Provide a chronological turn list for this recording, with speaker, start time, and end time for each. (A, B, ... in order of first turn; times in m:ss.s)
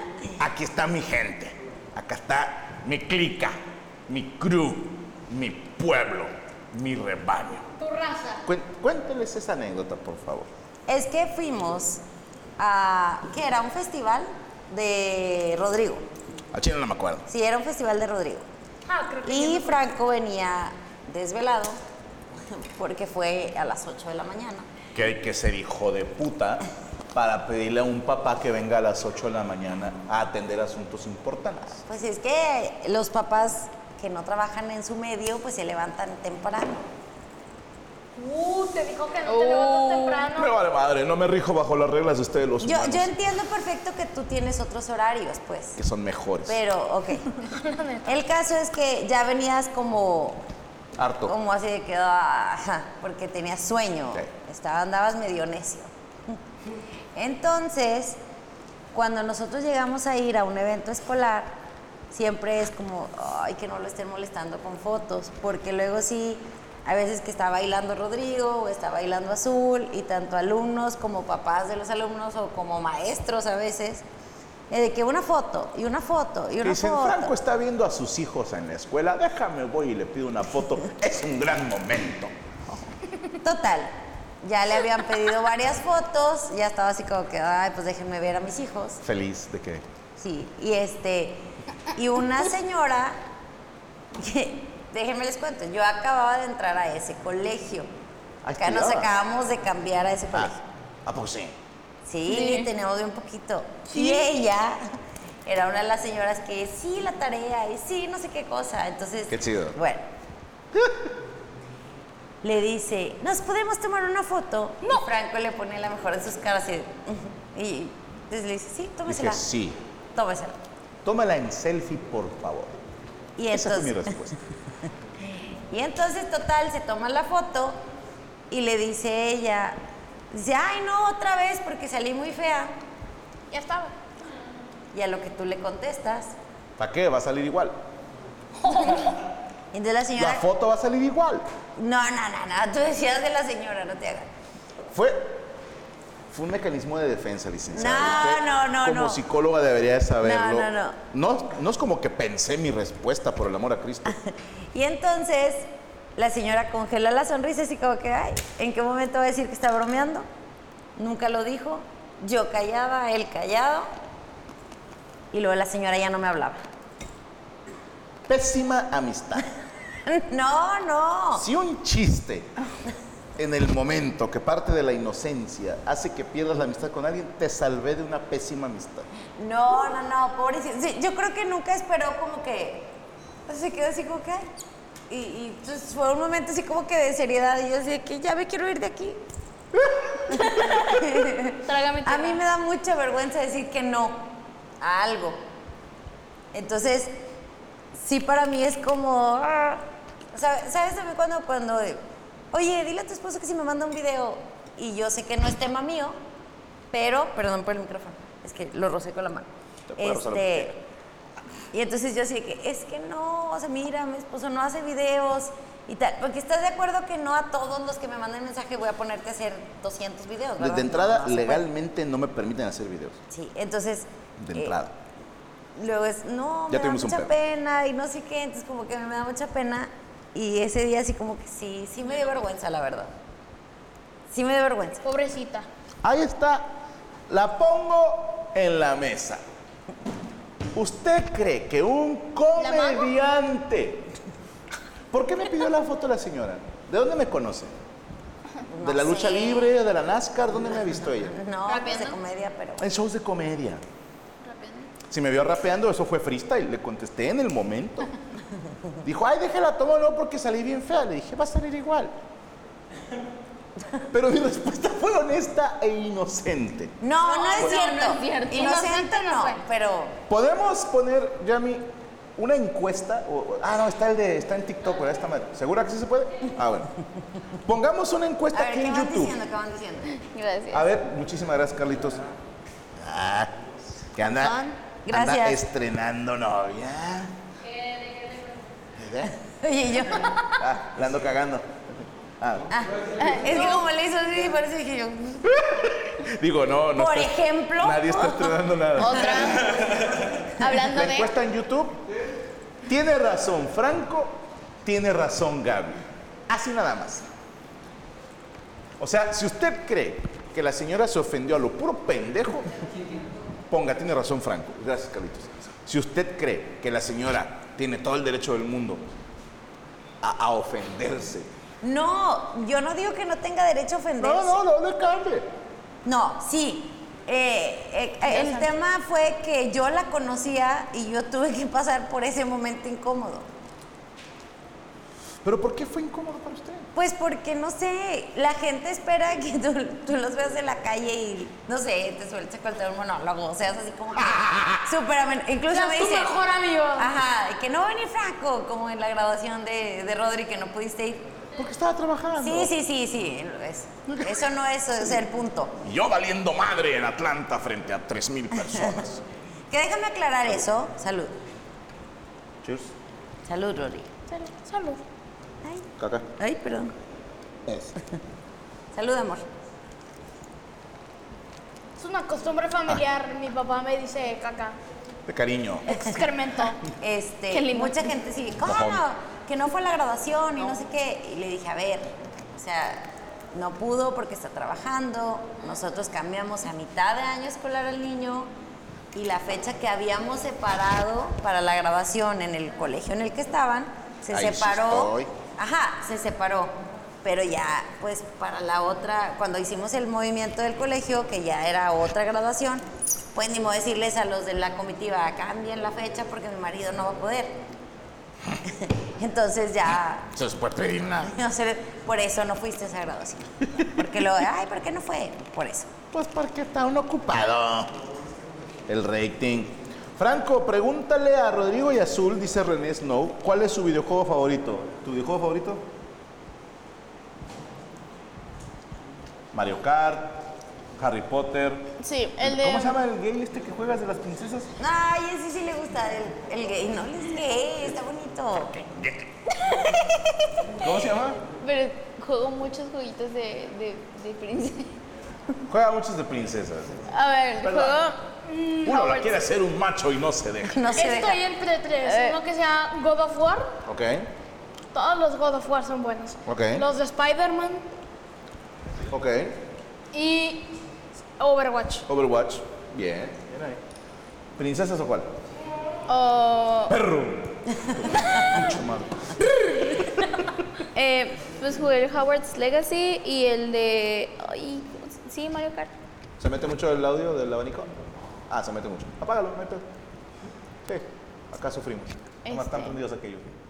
0:00.4-0:07.7 A
0:07.8-0:08.4 B
0:08.4-0:10.5 A
0:10.9-0:12.0 C
0:12.6-0:16.0 C
0:16.5-0:17.3 A
0:17.3-0:18.5 C
0:18.9-0:19.8 B
0:19.2-0:21.8 C
0:22.5-0:24.7 C
0:24.9-0:31.8 A
0:31.9-0:36.9 C
0:38.2-0:40.5 B
0:39.8-0:40.1 D
0:40.2-0:43.1 A
0:42.6-0:45.8 C
0:45.8-0:46.6 A
0:46.5-0:47.4 C
0:47.5-0:48.1 B
0:48.0-0:50.4 C
0:51.0-0:51.4 A
0:51.3-0:56.4 C
0:57.2-0:58.2 C
0:58.9-1:01.6 C
1:02.1-1:14.0 C
1:14.7-1:17.3 C
1:16.6-1:22.3 A
1:23.4-1:29.0 C
1:29.0-1:29.8 A
1:30.2-1:33.2 C
1:34.2-1:37.9 C
1:38.4-1:39.2 A
1:38.6-1:40.6 C
1:40.3-1:41.6 A
1:42.1-1:44.8 C
1:42.3-1:42.7 D
1:43.9-1:44.2 D
1:45.5-1:50.1 C
1:49.3-1:49.8 A
1:50.7-1:51.0 A
1:52.4-1:59.4 C
1:59.1-1:59.8 A
2:00.2-2:00.6 C
2:01.0-2:02.8 A
2:03.4-2:04.1 C
2:03.5-2:04.4 A
2:05.7-2:07.8 C
2:08.5-2:09.8 C
2:10.3-2:12.7 C
2:13.5-2:13.9 B
2:14.9-2:16.3 C
2:16.8-2:17.8 A
2:18.7-2:19.0 C
2:19.7-2:20.4 C
2:20.2-2:21.5 A
2:21.8-2:24.3 C
2:24.9-2:25.4 A
2:26.3-2:34.2 A
2:27.7-2:29.2 C
2:30.2-2:31.0 C
2:34.1-2:40.3 C
2:41.0-2:43.9 C
2:45.3-2:46.6 C
2:48.3-2:49.5 A
2:50.1-2:51.5 C
2:51.4-2:52.5 A
2:53.4-2:59.1 A
2:59.4-3:03.0 C
3:03.5-3:04.4 C
3:05.1-3:09.2 C
3:10.3-3:14.3 C
3:11.6-3:12.4 D
3:14.8-3:15.4 C
3:16.5-3:17.1 C
3:18.0-3:26.2 C
3:26.9-3:29.5 C
3:29.9-3:30.8 A
3:30.0-3:30.8 C
3:31.7-3:41.6 C
3:40.6-3:43.2 A
3:43.3-3:44.8 C
3:44.4-3:44.9 A
3:45.8-3:53.1 C
3:46.7-3:47.3 A
3:54.3-3:55.0 C
3:55.0-3:55.7 B
3:56.0-3:56.8 A
3:57.3-3:59.4 A
4:00.8-4:04.1 A
4:02.6-4:03.1 B
4:05.1-4:07.8 A
4:08.7-4:09.7 C
4:08.8-4:11.4 A
4:11.3-4:12.8 C
4:11.7-4:12.2 D
4:12.8-4:13.8 A
4:14.4-4:14.9 D
4:15.1-4:18.1 A
4:19.0-4:22.1 A
4:24.1-4:27.0 A
4:27.0-4:30.2 C
4:27.2-4:29.2 D
4:28.6-4:29.5 B
4:30.3-4:36.9 A
4:37.6-4:39.4 A
4:38.5-4:40.2 C
4:40.2-4:40.9 D
4:40.7-4:42.2 A
4:43.0-4:43.6 A
4:44.1-4:47.3 A
4:44.3-4:45.6 C
4:47.8-4:48.4 D
4:49.0-4:49.3 A
4:49.3-4:50.6 C
4:50.6-4:51.7 A
4:52.4-4:52.7 A
4:52.7-4:55.5 C
4:53.2-4:53.8 D
4:55.5-4:59.9 A
4:57.0-4:59.5 C
4:59.0-5:01.3 D
5:00.7-5:02.0 A
5:02.8-5:07.3 A
5:09.0-5:12.7 A
5:13.7-5:19.0 A
5:20.2-5:21.5 A
5:21.8-5:24.6 C
5:24.2-5:25.5 A
5:26.0-5:33.5 C
5:28.3-5:28.7 D
5:35.4-5:36.9 A
5:37.0-5:46.4 C
5:44.2-5:44.8 A
5:45.7-5:47.1 B
5:47.0-5:51.3 C
5:51.6-5:52.7 A
5:52.4-5:55.8 C
5:54.1-5:54.5 A
5:55.8-5:59.2 A
5:58.6-5:59.0 C
5:59.7-6:01.3 C
6:02.6-6:02.9 A
6:03.5-6:04.1 C
6:04.3-6:05.0 B
6:06.0-6:06.3 A
6:06.4-6:06.9 C
6:07.7-6:08.0 A
6:08.9-6:09.4 C
6:12.0-6:14.8 B
6:15.3-6:16.1 A
6:15.9-6:16.8 B
6:17.0-6:28.5 C
6:17.5-6:18.0 D
6:18.6-6:19.0 A
6:29.1-6:47.6 C
6:34.3-6:35.3 A
6:48.6-6:50.3 C
6:50.3-6:51.4 A
6:51.2-6:55.9 C
6:56.1-6:57.9 A
6:58.9-7:05.9 A
7:09.5-7:14.7 A
7:12.0-7:13.0 D
7:14.8-7:18.7 C
7:18.8-7:19.3 A
7:19.8-7:20.3 C
7:20.8-7:21.4 A
7:21.6-7:25.0 D
7:25.7-7:27.0 A
7:27.1-7:29.3 D
7:27.6-7:28.0 A
7:28.8-7:30.9 A
7:30.7-7:31.4 C
7:30.9-7:33.8 B
7:32.0-7:32.4 D
7:33.8-7:34.3 A
7:34.9-7:37.8 B
7:36.5-7:36.9 A
7:39.1-7:39.6 A
7:40.1-7:40.8 B
7:41.4-7:42.1 B
7:42.1-7:43.8 A
7:44.6-7:45.3 A
7:46.1-7:47.0 D
7:46.9-7:49.9 A
7:50.9-7:55.9 D
7:56.4-7:58.0 A
7:58.5-7:59.8 A
8:00.9-8:03.5 A
8:02.5-8:03.0 D